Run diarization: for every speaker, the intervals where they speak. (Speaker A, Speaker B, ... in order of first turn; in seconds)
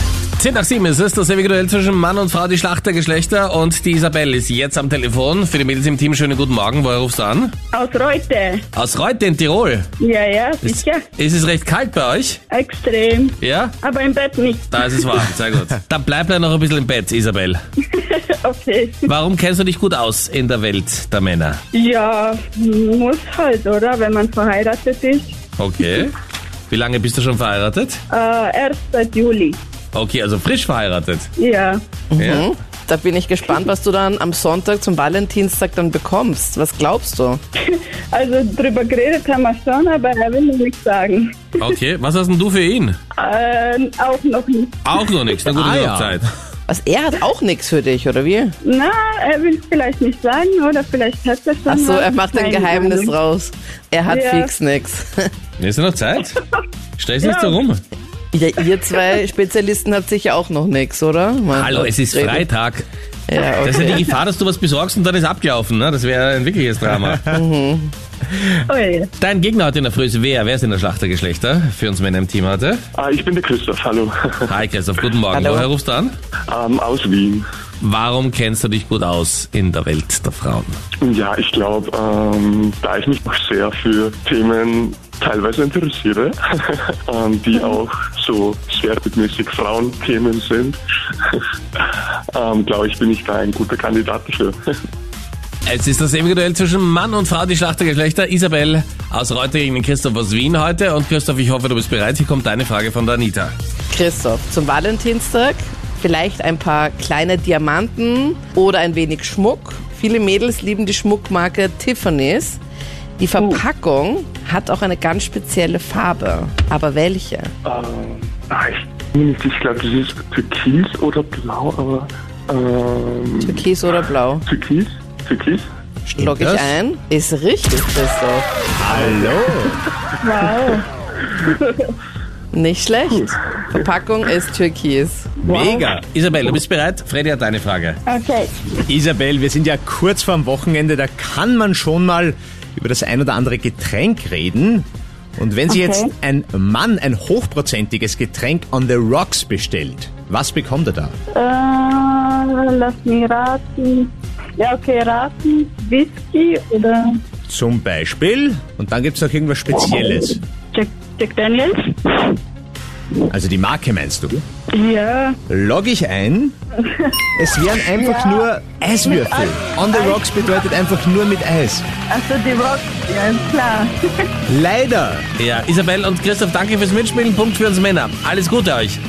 Speaker A: 0.4-7.5, 8.7-9.9, 10.6-12.4, 13.4-13.8, 14.7-17.6, 19.0-21.6, 25.6-26.1, 26.7-28.0, 29.9-31.3, 32.2-32.5, 41.6-43.0, 44.8-46.3, 55.6-56.4, 57.0-57.8, 61.5-62.9, 63.6-67.3, 69.2-72.8, 74.5-76.1, 77.8-80.7, 95.7-103.5, 136.0-138.0, 175.4-179.0
Speaker B: 7.7-8.6, 10.0-11.0, 12.5-15.2, 17.9-19.1, 21.7-25.4, 28.1-29.6, 31.4-31.8, 37.6-41.6, 43.1-45.0, 48.6-53.1, 54.1-54.5, 57.2-57.6, 68.7-69.1, 130.2-130.8, 131.4-131.9, 135.4-135.9, 138.1-138.5, 145.7-146.1, 151.3-157.2, 160.7-162.3, 164.7-165.4, 167.8-168.5, 169.0-170.3, 172.1-173.9
Speaker C: 32.1-37.4, 46.7-48.5, 51.7-55.3, 58.3-62.5, 63.3-64.1, 67.3-67.9, 75.3-75.7, 103.9-112.6, 113.2-117.5, 123.4-124.4, 126.1-129.1, 132.5-135.3
Speaker D: 45.5-46.2, 126.2-126.7, 128.8-129.8, 135.4-136.0, 138.9-144.8, 145.4-151.1, 157.5-160.4, 163.3-164.4, 165.5-166.5, 167.3-171.9, 174.5-175.3
Speaker E: 73.0-74.5, 76.5-77.4, 81.0-94.6, 117.6-123.5, 124.5-125.6